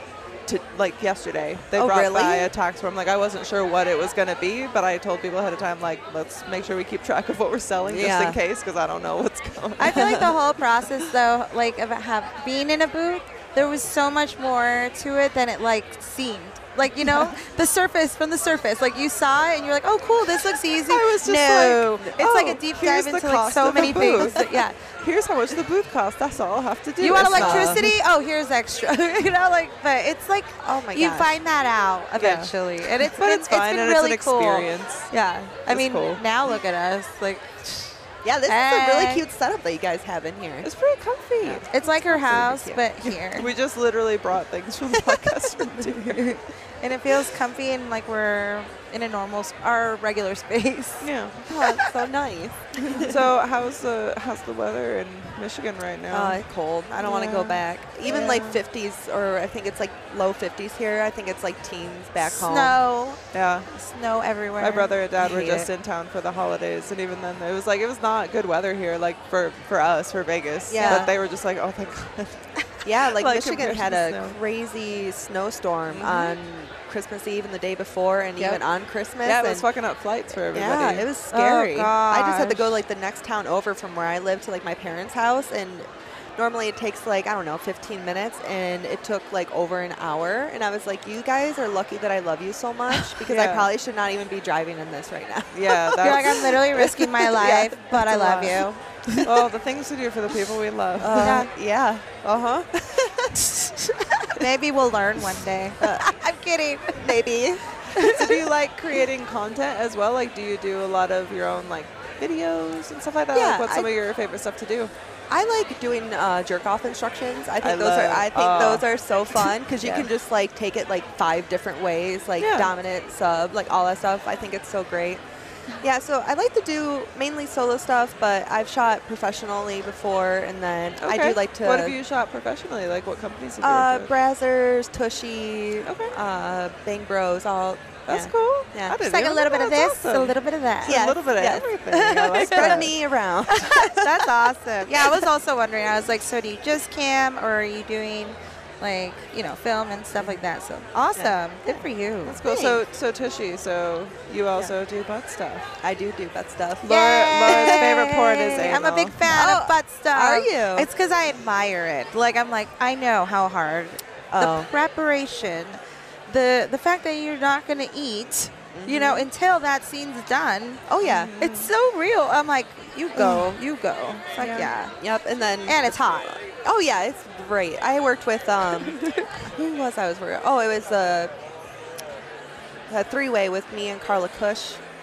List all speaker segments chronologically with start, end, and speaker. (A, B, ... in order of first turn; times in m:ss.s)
0:00.4-0:10.3 A
0:01.7-0:02.5 B
0:07.9-0:08.4 B
0:09.8-0:24.8 C
0:17.0-0:17.3 A
0:20.4-0:27.9 A
0:27.0-0:39.2 C
0:27.3-0:27.9 B
0:30.6-0:31.3 B
0:32.2-0:35.1 A
0:35.7-0:36.2 A
0:38.2-0:40.7 B
0:40.6-0:41.7 A
0:41.4-0:42.9 B
0:41.7-0:43.5 C
0:43.0-0:46.2 A
0:45.8-0:51.7 C
0:51.0-0:51.6 A
0:51.5-0:53.2 B
0:52.9-0:56.4 A
0:56.1-1:02.8 B
0:57.0-0:57.6 C
0:58.0-0:58.6 A
1:02.2-1:05.0 C
1:03.3-1:03.7 A
1:04.6-1:14.4 A
1:05.2-1:05.7 B
1:10.7-1:11.1 B
1:12.8-1:19.7 B
1:15.9-1:16.4 A
1:18.4-1:18.6 A
1:19.2-1:21.1 A
1:20.5-1:36.6 B
1:21.3-1:22.8 C
1:32.9-1:33.7 A
1:35.5-1:36.9 A
1:36.0-1:38.8 C
1:37.2-1:38.7 B
1:39.2-1:41.4 A
1:41.0-1:43.4 B
1:41.2-1:41.5 C
1:43.4-1:47.2 C
1:45.8-1:46.1 B
1:47.0-1:47.9 B
1:47.9-1:48.3 C
1:48.0-1:54.9 A
1:53.3-1:53.9 B
1:55.3-2:05.2 B
1:57.6-2:00.1 A
2:02.4-2:02.7 A
2:05.8-2:12.0 B
2:11.0-2:14.1 A
2:13.6-2:19.0 B
2:15.8-2:16.2 A
2:18.1-2:23.0 A
2:19.0-2:21.0 C
2:20.8-2:24.3 B
2:21.9-2:22.9 C
2:23.5-2:32.8 C
2:24.9-2:25.3 B
2:31.2-2:31.8 B
2:32.2-2:35.7 A
2:35.8-2:38.0 B
2:36.8-2:39.2 A
2:36.8-2:50.9 C
2:39.2-2:40.9 B
2:44.3-2:44.7 B
2:48.7-2:49.3 B
2:50.9-2:51.3 B
2:51.0-2:51.7 A
2:51.4-2:55.0 C
2:53.2-2:53.5 A
2:54.4-2:54.7 A
2:54.9-3:01.3 B
2:55.6-2:56.3 C
3:02.9-3:04.8 B